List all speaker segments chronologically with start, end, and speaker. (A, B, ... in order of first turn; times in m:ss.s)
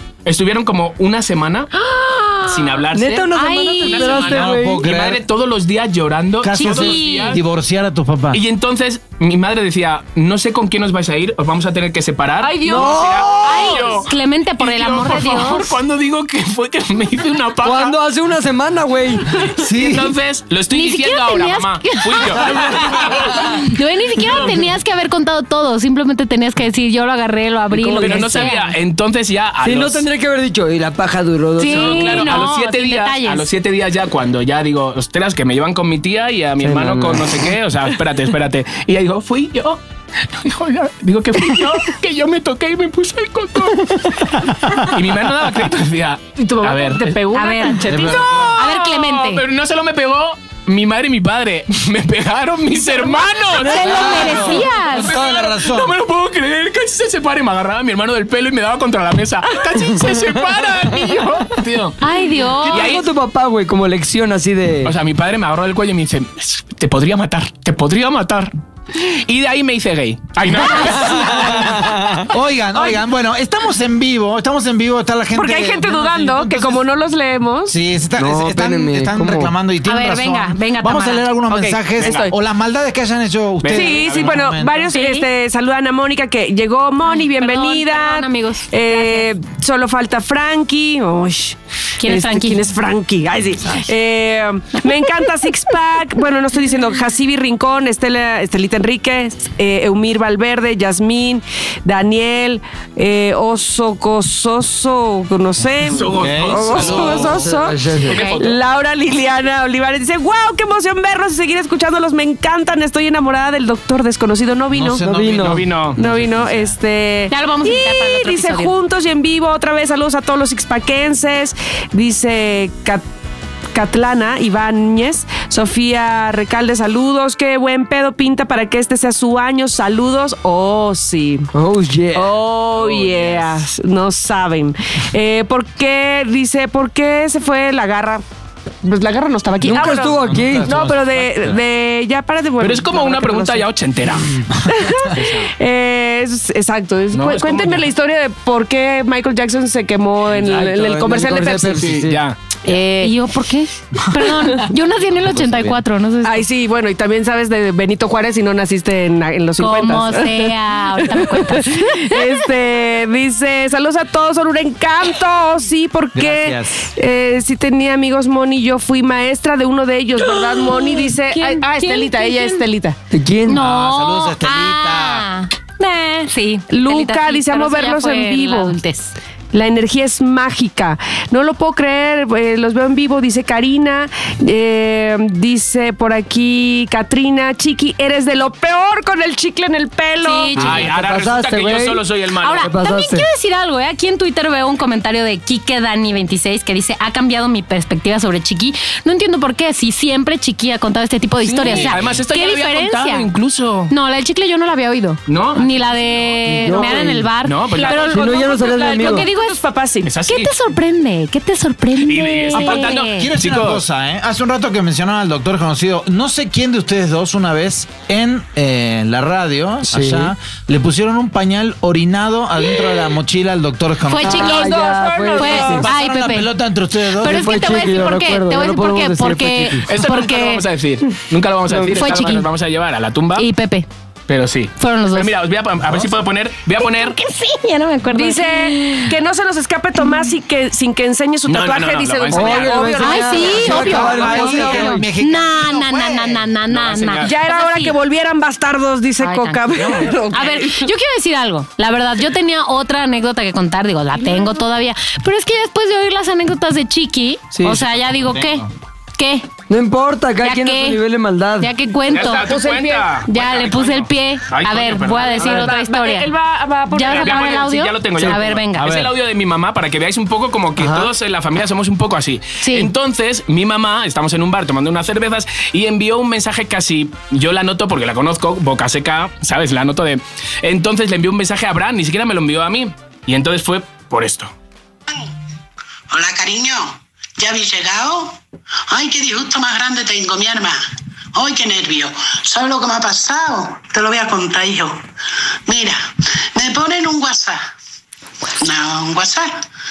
0:00.2-0:01.8 A
0:01.9-0:02.4 B
0:02.4-0:03.3 A
0:02.9-0:04.9 C
0:03.3-0:04.3 D
0:03.8-0:07.4 A
0:04.3-0:05.2 E
0:06.4-0:08.4 E
0:06.5-0:07.4 D
0:08.3-0:18.0 A
0:12.4-0:14.0 B
0:12.6-0:13.7 C
0:13.4-0:15.7 D
0:17.6-0:19.3 C
0:19.4-0:23.6 A
0:19.6-0:20.1 E
0:20.7-0:28.8 D
0:22.4-0:23.5 C
0:24.2-0:24.5 A
0:27.8-0:28.5 C
0:27.9-0:30.1 A
0:29.6-0:32.5 C
0:31.6-0:33.5 D
0:31.6-0:47.2 A
0:36.6-0:37.5 C
0:46.4-0:48.6 B
0:47.3-0:49.4 D
0:47.9-0:48.6 E
0:48.0-1:02.0 A
0:53.6-0:55.1 D
0:53.7-0:56.0 E
0:53.7-0:54.6 C
1:00.8-1:01.3 C
1:02.0-1:03.0 D
1:02.6-1:04.9 C
1:02.7-1:03.1 A
1:04.8-1:11.9 A
1:10.8-1:12.3 C
1:11.1-1:16.8 E
1:15.4-1:17.8 B
1:17.7-1:25.0 E
1:18.2-1:19.5 C
1:19.8-1:21.3 D
1:21.5-1:22.3 A
1:22.0-1:22.3 B
1:23.6-1:24.5 A
1:23.7-1:55.1 B
1:24.9-1:25.3 D
1:27.0-1:29.3 D
1:32.0-1:32.6 D
1:45.8-1:47.4 A
1:46.2-1:47.6 E
1:46.7-1:48.2 C
1:48.0-1:48.6 A
1:48.1-1:48.4 D
1:54.7-1:56.8 E
1:55.0-1:55.6 C
1:55.4-1:56.0 A
1:56.0-2:03.0 B
1:57.3-1:58.7 D
2:03.7-2:11.5 B
2:11.5-2:12.3 C
2:12.1-2:18.2 B
2:12.7-2:13.6 A
2:18.8-2:23.6 B
2:19.6-2:20.8 C
2:19.7-2:21.6 E
2:22.6-2:24.4 A
2:24.6-2:31.9 B
2:25.0-2:25.5 A
2:27.1-2:27.9 A
2:30.5-2:32.2 C
2:31.7-2:32.6 A
2:32.6-2:33.1 B
2:32.7-2:36.4 D
2:35.1-2:35.8 E
2:36.2-2:53.0 B
2:39.6-2:42.4 D
2:46.1-2:46.9 E
2:50.3-2:52.6 D
2:53.1-2:53.6 C
2:53.5-2:59.1 D
2:53.5-2:55.3 E
2:56.7-2:58.8 B
2:59.5-3:10.6 B
3:10.2-3:10.9 D
3:10.6-3:12.7 A
3:10.6-3:12.0 C
3:12.4-3:23.3 D
3:12.6-3:13.3 C
3:21.4-3:23.9 A
3:23.9-3:29.6 D
3:25.3-3:26.4 A
3:26.4-3:27.3 C
3:27.4-3:28.1 A
3:27.7-3:30.1 B
3:28.0-3:29.3 C
3:30.0-3:30.5 A
3:30.3-3:33.3 D
3:32.0-3:33.8 A
3:32.5-3:44.5 E
3:39.9-3:40.3 C
3:44.1-3:46.5 D
3:44.2-3:45.9 B
3:44.2-3:45.8 C
3:45.7-3:47.9 E
3:47.2-3:50.6 D
3:47.2-3:49.9 C
3:49.9-3:53.5 A
3:51.7-3:52.2 C
3:51.9-3:52.5 D
3:53.4-3:53.9 D
3:54.3-3:57.2 A
3:54.8-3:55.3 D
3:56.8-3:59.1 D
3:58.1-4:04.8 B
4:01.5-4:03.1 A
4:02.3-4:05.0 C
4:03.0-4:08.0 D
4:03.6-4:06.4 E
4:06.7-4:07.4 A
4:07.2-4:10.9 B
4:09.2-4:19.5 D
4:09.8-4:10.1 E
4:17.5-4:17.8 C
4:17.6-4:18.7 E
4:19.7-4:21.7 C
4:20.4-4:21.0 D
4:21.6-4:22.5 D
4:22.1-4:25.7 A
4:22.2-4:23.2 B
4:23.3-4:26.3 D
4:25.3-4:27.7 B
4:26.9-4:29.0 D
4:27.1-4:44.5 A
4:28.7-4:29.1 E
4:30.8-4:31.1 C
4:32.6-4:32.9 D
4:46.1-4:48.4 F
4:48.9-4:50.8 F
4:51.3-4:55.0 F
4:55.7-4:57.6 F
4:58.6-4:59.6 F